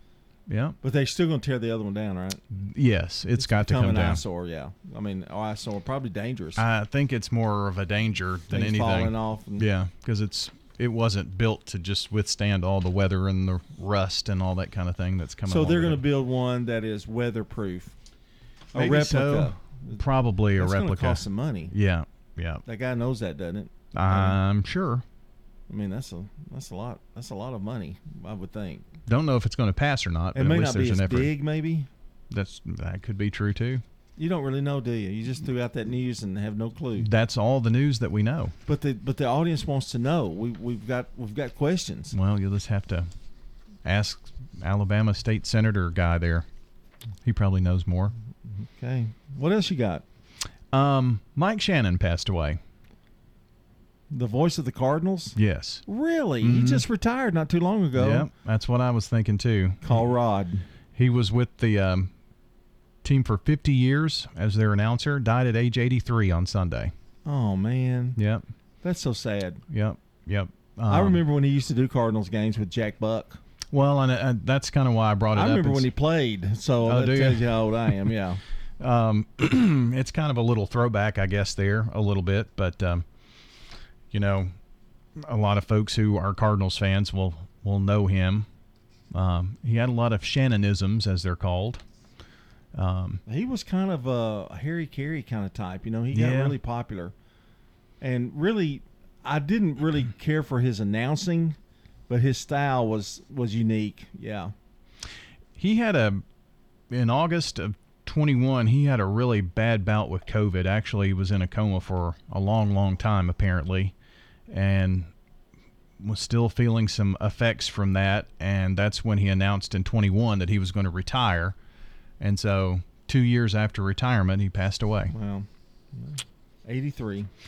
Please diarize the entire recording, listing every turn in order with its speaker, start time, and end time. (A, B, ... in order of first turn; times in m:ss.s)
0:00.5-0:00.8 A
0:00.8-0:02.4 B
0:02.6-0:04.2 A
0:03.4-0:06.6 B
0:06.6-0:16.0 A
0:08.5-0:09.7 B
0:15.5-0:17.9 B
0:18.7-0:20.0 B
0:18.8-0:22.6 A
0:20.6-0:21.7 B
0:22.6-0:24.4 B
0:24.0-0:25.0 A
0:25.7-0:28.8 B
0:29.1-0:31.3 A
0:30.3-0:31.9 B
0:32.3-0:33.8 A
0:34.2-0:37.1 B
0:37.0-0:38.5 A
0:38.7-0:42.1 B
0:42.1-0:43.1 A
0:43.8-0:46.5 A
0:47.2-0:48.1 A
0:48.5-0:50.0 B
0:50.7-0:52.6 A
0:54.1-0:55.4 B
0:55.4-0:55.8 A
0:55.9-0:58.3 B
0:56.4-0:56.8 A
0:58.0-1:00.1 A
0:59.8-1:00.6 B
1:01.0-1:02.1 A
1:03.0-1:06.9 A
1:07.2-1:08.2 B
1:08.2-1:08.4 A
1:08.8-1:09.6 B
1:09.7-1:11.2 A
1:10.9-1:13.4 B
1:13.7-1:15.8 A
1:15.4-1:18.4 B
1:16.9-1:17.5 A
1:18.8-1:23.0 A
1:24.1-1:24.5 A
1:25.2-1:28.5 A
1:29.1-1:31.8 A
1:32.8-1:33.2 A
1:33.3-1:37.1 B
1:36.1-1:36.6 A
1:38.0-1:41.6 B
1:42.1-1:44.5 B
1:45.6-1:46.2 A
1:46.9-1:53.9 A
1:54.5-1:55.1 A
1:56.0-2:01.6 A
2:02.2-2:05.1 A
2:05.1-2:07.3 B